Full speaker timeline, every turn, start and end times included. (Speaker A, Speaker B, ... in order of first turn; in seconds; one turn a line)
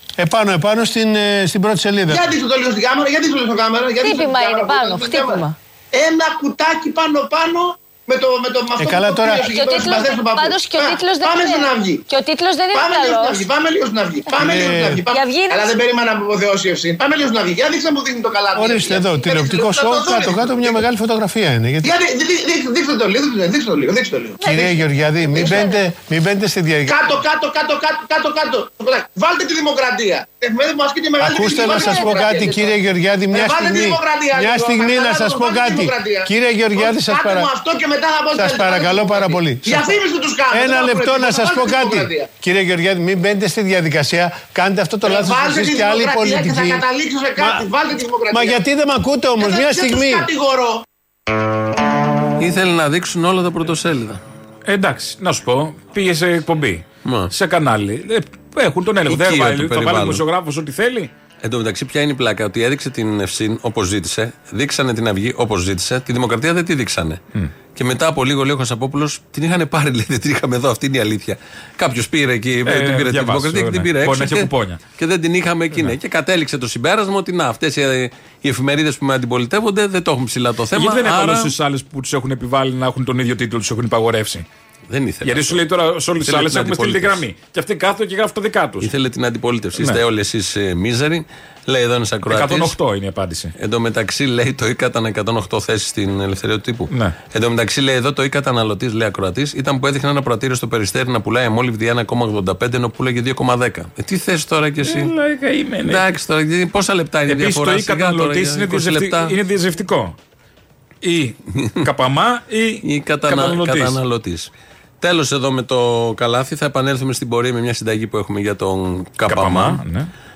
Speaker A: 0.2-2.3
Speaker B: 2.1-12.0
Speaker C: 4.0-5.5
Speaker A: 8.8-9.5
Speaker C: 9.4-13.5
Speaker B: 12.7-20.8
Speaker A: 14.4-15.0
Speaker C: 15.1-15.8
Speaker A: 18.5-21.9
Speaker B: 21.8-24.6
Speaker A: 24.4-27.0
Speaker C: 25.4-25.8
Speaker B: 26.9-32.7
Speaker A: 31.2-37.5
Speaker B: 33.3-42.3
Speaker A: 38.4-40.0
Speaker A: 40.5-46.8
Speaker B: 45.0-48.6
Speaker A: 47.4-47.6
Speaker A: 48.3-50.3
Speaker B: 49.4-50.8
Speaker D: 52.4-54.2
Speaker E: 54.6-61.1
Speaker D: 57.0-57.3
Speaker D: 59.1-60.2
Speaker D: 61.4-67.2
Speaker D: 67.7-81.5
Speaker E: 72.6-74.8
Speaker E: 80.7-84.5
Speaker D: 84.9-85.7
Speaker E: 85.2-88.9
Speaker D: 86.2-87.2
Speaker D: 88.8-92.8
Speaker E: 92.3-93.5
Speaker D: 93.6-105.1
Speaker E: 96.9-97.2
Speaker E: 104.8-106.1
Speaker D: 105.8-109.4
Speaker E: 107.3-110.2
Speaker E: 111.0-114.0
Speaker D: 112.8-114.5
Speaker D: 115.0-119.8
Speaker E: 119.3-120.1